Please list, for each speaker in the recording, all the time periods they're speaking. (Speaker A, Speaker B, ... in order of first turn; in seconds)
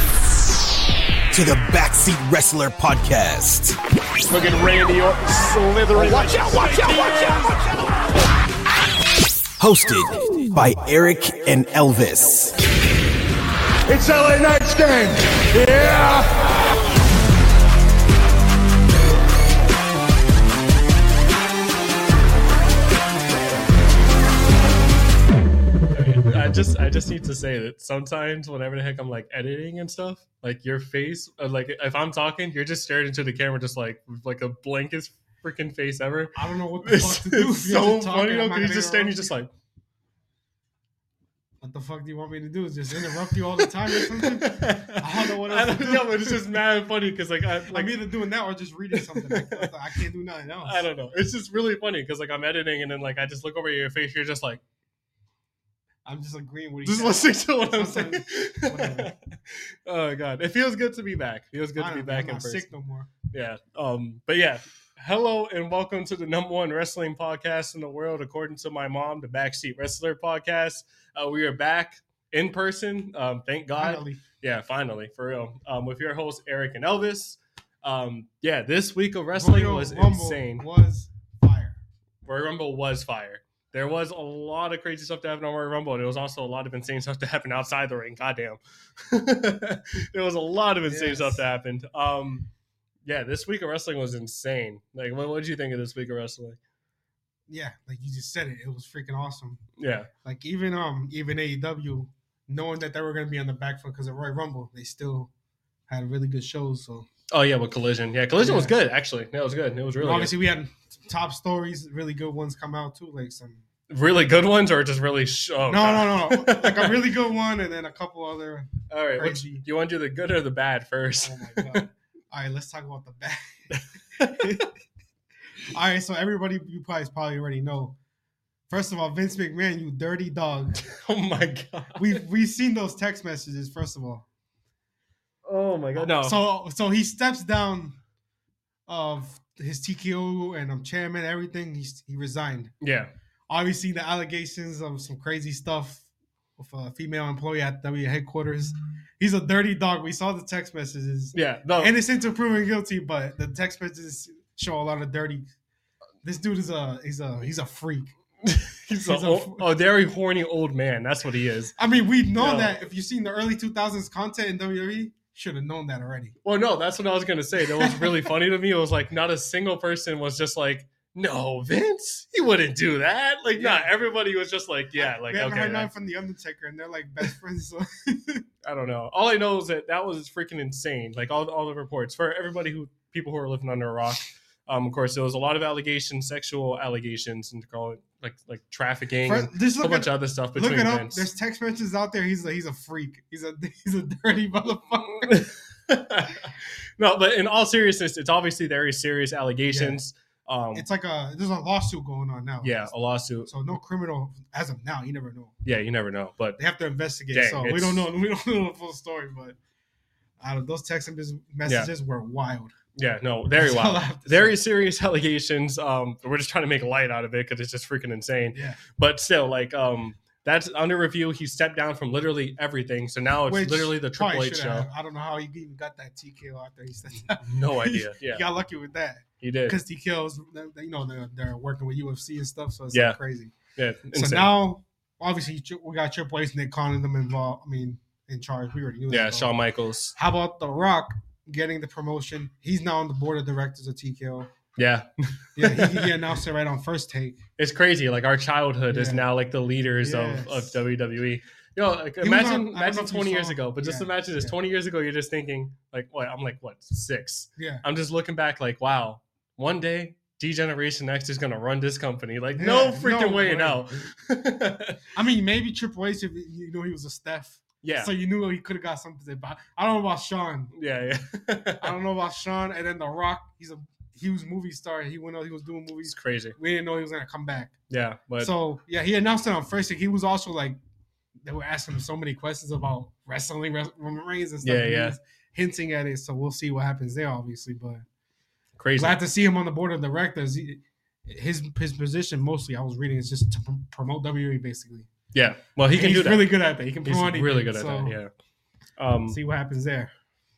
Speaker A: 1.3-3.8, 6.0-6.7, 9.6-12.6
Speaker B: 4.3-7.4, 13.9-16.6
Speaker C: 25.9-39.5, 43.0-48.0, 48.9-49.7, 50.6-54.6, 56.9-62.7, 63.3-80.7, 82.2-92.5, 93.1-96.6, 99.8-100.1, 107.3-110.3, 113.9-117.0, 118.9-121.9, 123.7-124.7, 130.8-132.2, 135.4-136.4, 142.8-143.1, 151.3-151.9, 158.4-161.8, 162.4-162.7, 166.4-175.9, 178.6-191.3, 195.2-200.9, 202.6-203.5, 205.6-206.6, 207.3-208.1, 211.7-211.9, 213.0-224.9, 227.4-228.4, 229.4-229.8, 232.9-233.2, 233.8-234.6, 239.1-240.2, 244.8-246.1, 247.6-265.0, 267.8-268.1, 270.7-271.9, 276.1-276.6, 277.9-278.5, 284.6-285.2, 288.8-289.2, 295.3-296.5, 297.0-298.3, 299.0-299.4
Speaker D: 36.4-39.3, 41.6-46.4, 47.7-50.9, 56.0-59.1, 61.8-63.1, 73.8-74.2, 79.3-81.8, 90.9-91.4, 97.5-99.6, 100.2-105.3, 105.9-107.1, 108.4-108.7, 110.0-113.6, 115.7-119.6, 121.2-123.5, 124.2-124.7, 125.7-128.0, 128.7-130.8, 132.0-134.3, 136.0-138.0, 138.9-142.7, 143.5-146.1, 146.6-155.4, 156.2-158.1, 159.0-159.7, 161.8-166.3, 167.8-168.3, 173.6-173.9, 175.0-178.4, 189.2-195.3, 199.7-200.0, 200.8-202.9, 203.5-205.6, 206.6-209.6, 210.4-212.7, 213.6-214.6, 218.5-218.8, 223.5-233.6, 234.1-239.5, 240.2-244.5, 245.6-247.4, 248.9-249.3, 250.0-250.8, 252.2-254.6, 257.6-257.8, 262.6-263.9, 265.1-270.7, 271.8-277.7, 278.4-280.8, 281.4-288.0, 289.0-295.1, 295.9-298.2, 299.3-300.1